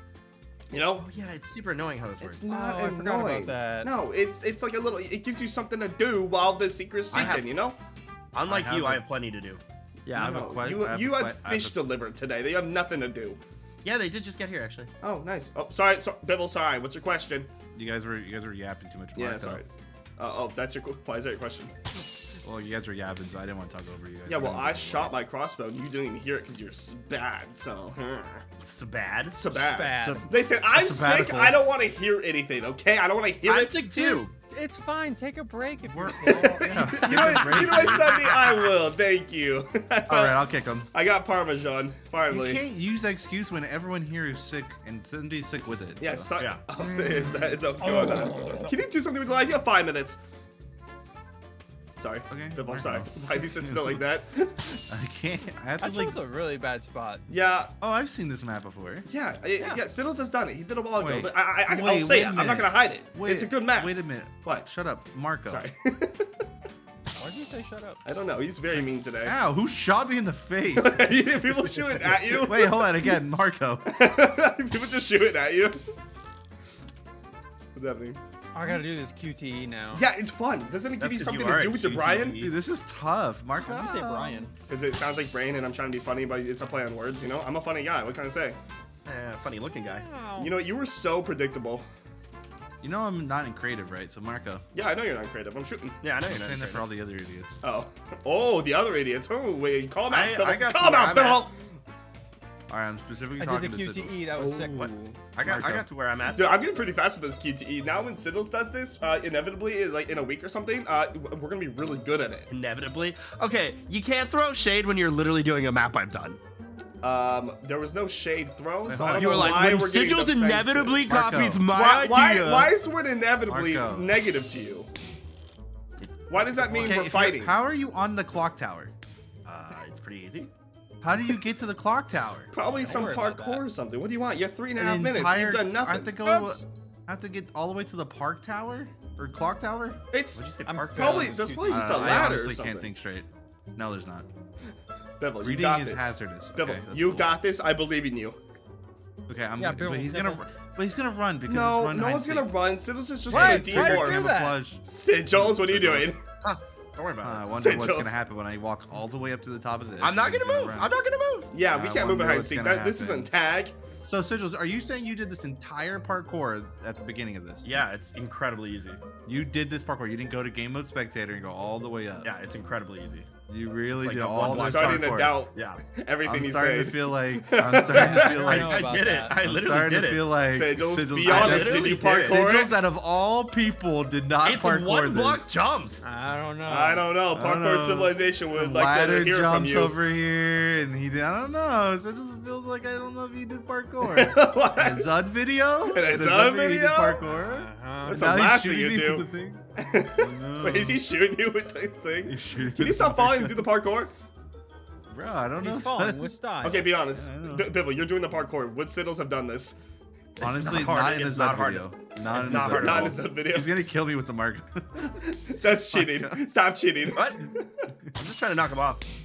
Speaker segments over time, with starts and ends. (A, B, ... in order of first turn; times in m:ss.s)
0:00.7-0:01.0 A
0:01.0-0:02.4 B
0:02.2-0:07.8 A
0:02.5-0:03.9 C
0:07.1-0:07.4 B
0:07.1-0:07.4 D
0:08.3-0:10.4 B
0:08.4-0:09.0 D
0:10.1-0:13.4 A
0:10.1-0:11.8 D
0:13.8-0:14.9 B
0:15.0-0:17.5 A
0:17.7-0:19.6 D
0:19.2-0:21.7 A
0:22.4-0:25.1 D
0:24.3-0:28.4 A
0:28.6-0:29.4 B
0:29.3-0:33.8 A
0:29.5-0:30.2 C
0:29.9-0:31.6 D
0:33.4-0:34.3 B
0:33.9-0:37.4 C
0:35.8-0:38.2 D
0:36.2-0:42.6 A
0:37.5-0:38.5 B
0:40.1-0:40.9 D
0:42.3-0:46.3 D
0:46.0-0:50.2 A
0:46.8-0:48.8 C
0:52.0-0:54.8 A
0:52.3-0:54.0 D
0:54.9-0:56.2 D
0:55.8-0:57.2 C
0:57.3-0:57.7 A
0:57.8-0:59.0 D
0:59.1-1:04.7 A
1:01.0-1:05.7 D
1:05.4-1:06.3 A
1:07.2-1:08.0 C
1:08.0-1:09.3 A
1:08.7-1:11.1 D
1:10.7-1:13.1 A
1:12.0-1:13.8 D
1:13.8-1:15.8 A
1:17.7-1:18.9 A
1:18.5-1:20.1 C
1:19.9-1:22.5 A
1:21.0-1:22.5 B
1:22.4-1:24.4 D
1:23.6-1:24.5 C
1:24.7-1:28.6 A
1:29.0-1:30.0 B
1:30.0-1:30.5 C
1:30.4-1:31.8 A
1:32.8-1:34.6 D
1:34.7-1:36.0 A
1:36.0-1:36.9 B
1:36.3-1:37.6 D
1:37.6-1:41.6 A
1:40.1-1:41.5 B
1:42.7-1:44.2 D
1:43.4-1:44.9 C
1:44.4-1:45.2 A
1:44.8-1:46.6 B
1:45.4-1:45.8 D
1:46.3-1:52.5 A
1:52.5-1:56.4 B
1:57.0-2:01.1 A
1:58.8-1:59.9 D
1:59.1-2:02.7 B
2:01.0-2:01.6 D
2:01.7-2:04.9 A
2:03.5-2:04.1 D
2:06.3-2:07.5 A
2:06.8-2:08.9 D
2:09.4-2:10.5 B
2:11.0-2:12.5 D
2:12.5-2:16.2 A
2:12.6-2:13.7 C
2:14.8-2:20.0 D
2:16.2-2:16.6 C
2:20.1-2:20.4 A
2:20.4-2:22.2 B
2:20.6-2:22.1 C
2:20.9-2:22.9 A
2:21.7-2:24.3 D
2:25.2-2:28.4 A
2:25.4-2:27.3 D
2:29.3-2:32.6 D
2:29.6-2:30.4 C
2:31.4-2:34.3 A
2:33.3-2:36.1 D
2:33.3-2:34.6 C
2:34.8-2:36.2 A
2:36.4-2:37.5 B
2:37.2-2:40.9 D
2:37.6-2:38.2 A
2:40.0-2:41.5 B
2:41.5-2:43.7 A
2:41.7-2:43.3 D
2:44.0-2:47.7 D
2:47.6-2:49.0 B
2:49.2-2:52.3 D
2:52.2-2:53.3 B
2:53.5-2:55.4 D
2:54.0-2:55.8 B
2:54.4-2:58.4 A
2:56.2-3:05.5 D
2:57.8-2:59.3 C
2:57.9-3:00.3 B
3:00.5-3:02.8 A
3:01.2-3:02.5 B
3:04.4-3:06.0 B
3:06.0-3:07.0 C
3:06.6-3:09.9 A
3:07.3-3:19.6 D
3:14.0-3:15.1 A
3:15.9-3:17.2 A
3:17.2-3:18.3 C
3:18.0-3:24.1 A
3:20.2-3:21.0 D
3:22.2-3:23.6 D
3:25.1-3:26.2 D
3:25.6-3:26.9 C
3:26.6-3:29.8 A
3:27.1-3:27.7 D
3:30.4-3:33.2 B
3:30.4-3:35.1 D
3:32.4-3:33.7 A
3:35.2-3:37.6 A
3:35.9-3:36.4 D
3:37.1-3:37.5 B
3:38.2-3:39.0 B